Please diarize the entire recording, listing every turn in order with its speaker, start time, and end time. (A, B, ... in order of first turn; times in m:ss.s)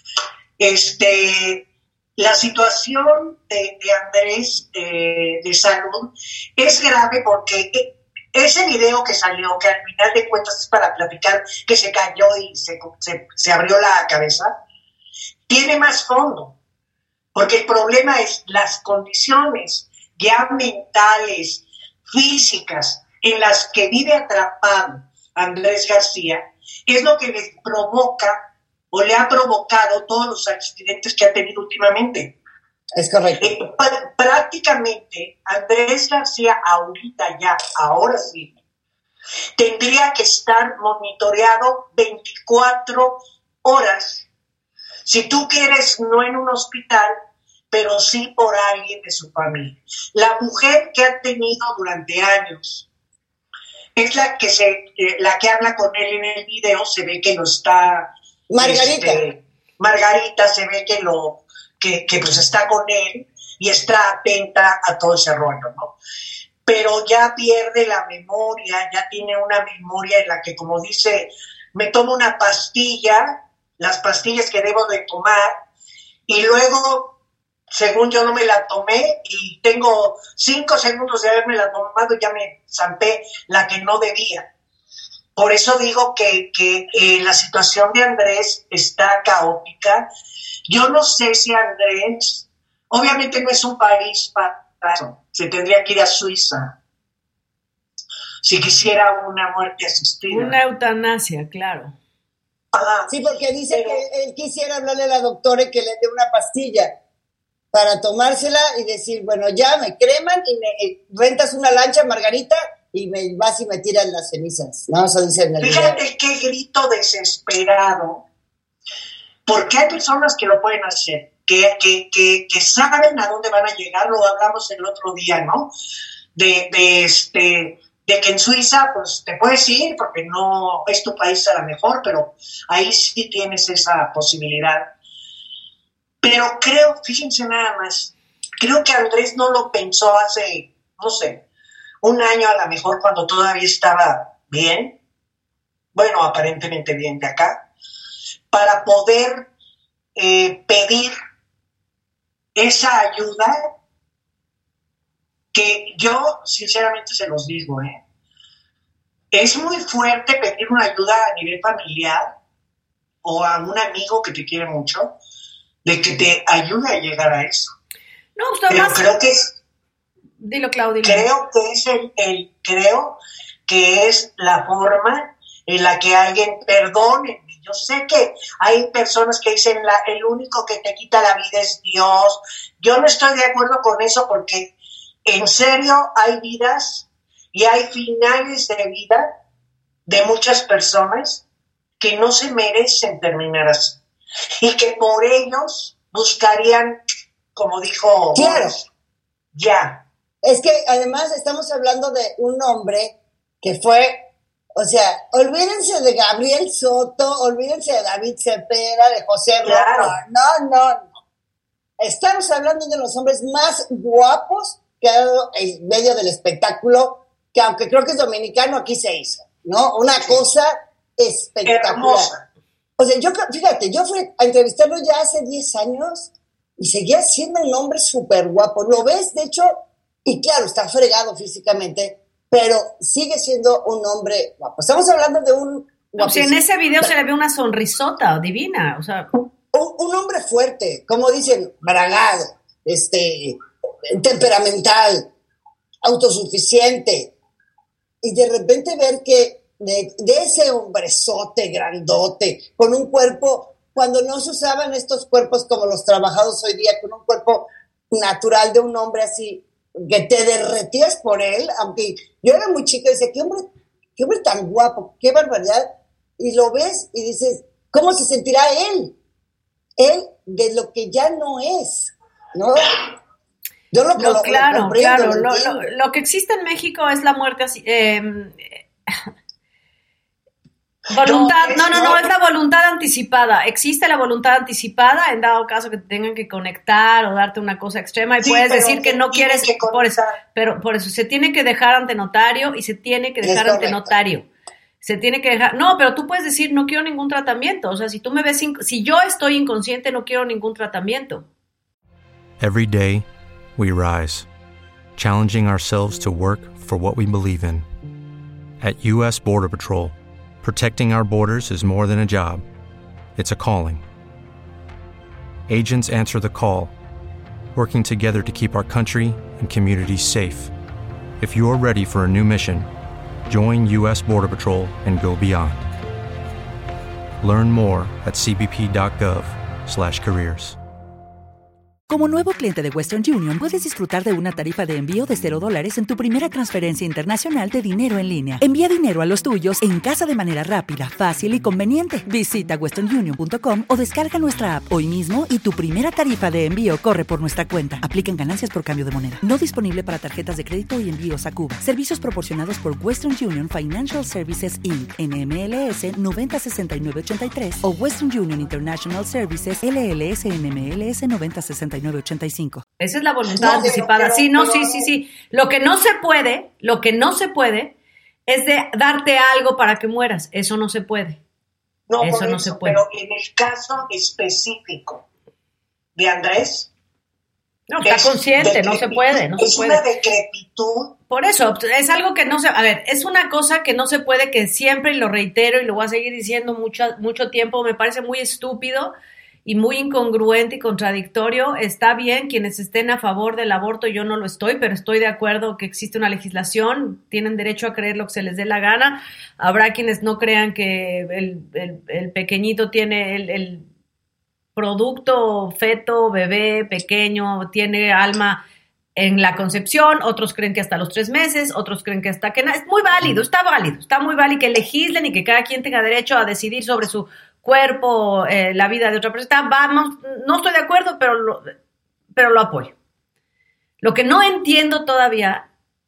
0:00.6-0:14.5 A
0:15.5-0:16.5 A
0:17.3-0:32.3 A
0:32.9-0:33.6 B
0:33.4-0:38.5 A
0:39.6-0:44.2 A
0:45.0-0:47.1 A
0:47.7-0:52.9 A
0:54.0-1:05.9 A
0:58.5-0:59.2 B
1:06.6-1:15.5 A
1:16.3-1:17.1 A
1:17.7-1:24.5 A
1:25.4-1:30.1 A
1:30.7-1:36.7 A
1:38.4-1:40.6 A
1:40.3-1:41.9 C
1:42.7-1:43.1 A
1:43.1-1:46.9 B
1:43.7-1:44.0 A
1:47.7-1:56.0 B
1:55.6-1:58.2 A
1:59.4-2:05.7 A
2:06.4-2:14.9 A
2:16.2-2:21.4 A
2:22.0-2:24.9 A
2:25.9-2:27.6 A
2:28.5-2:29.5 A
2:30.2-2:31.1 A
2:32.6-2:33.6 A
2:35.5-2:38.0 A
2:39.3-2:42.3 A
2:43.2-2:45.1 A
2:45.8-2:47.7 A
2:48.4-2:49.1 C
2:48.7-2:49.5 A
2:50.4-2:51.3 C
2:51.0-3:04.7 A
3:05.2-3:09.3 A
3:10.0-3:11.4 A
3:12.0-3:14.0 A
3:14.6-3:17.0 A
3:17.5-3:18.9 A
3:18.3-3:18.8 B
3:19.5-3:20.0 A
3:20.4-3:31.1 B
3:29.6-3:30.1 A
3:32.0-3:42.3 B
3:41.6-3:42.4 A
3:43.0-3:57.1 B
3:56.2-3:59.3 C
3:59.7-4:05.3 B
4:06.0-4:07.3 B
4:08.2-4:29.1 B
4:30.0-4:33.0 B
4:33.9-4:35.8 B
4:34.2-4:39.1 C
4:41.1-4:54.5 C
4:41.2-4:42.2 A
4:48.4-4:50.4 A
4:53.4-4:54.1 B
4:55.0-5:01.5 C
5:02.6-5:04.5 D
5:05.2-5:07.8 D
5:08.8-5:12.6 D
5:13.4-5:14.0 D
5:15.7-5:16.9 D
5:17.7-5:20.7 D
5:21.4-5:22.9 D
5:23.5-5:25.9 D
5:27.4-5:30.8 D
5:32.1-6:02.8 E
6:03.0-6:07.9 C
6:03.6-6:05.1 B
6:08.5-6:11.4 C
6:12.1-6:15.2 A
6:12.2-6:13.0 C
6:16.2-6:16.9 A
6:17.9-6:20.0 C
6:18.0-6:21.1 A
6:21.3-6:29.1 C
6:29.6-6:43.8 C
6:44.8-6:48.6 C
6:49.2-7:01.7 C
7:02.3-7:02.9 C
7:04.0-7:05.6 C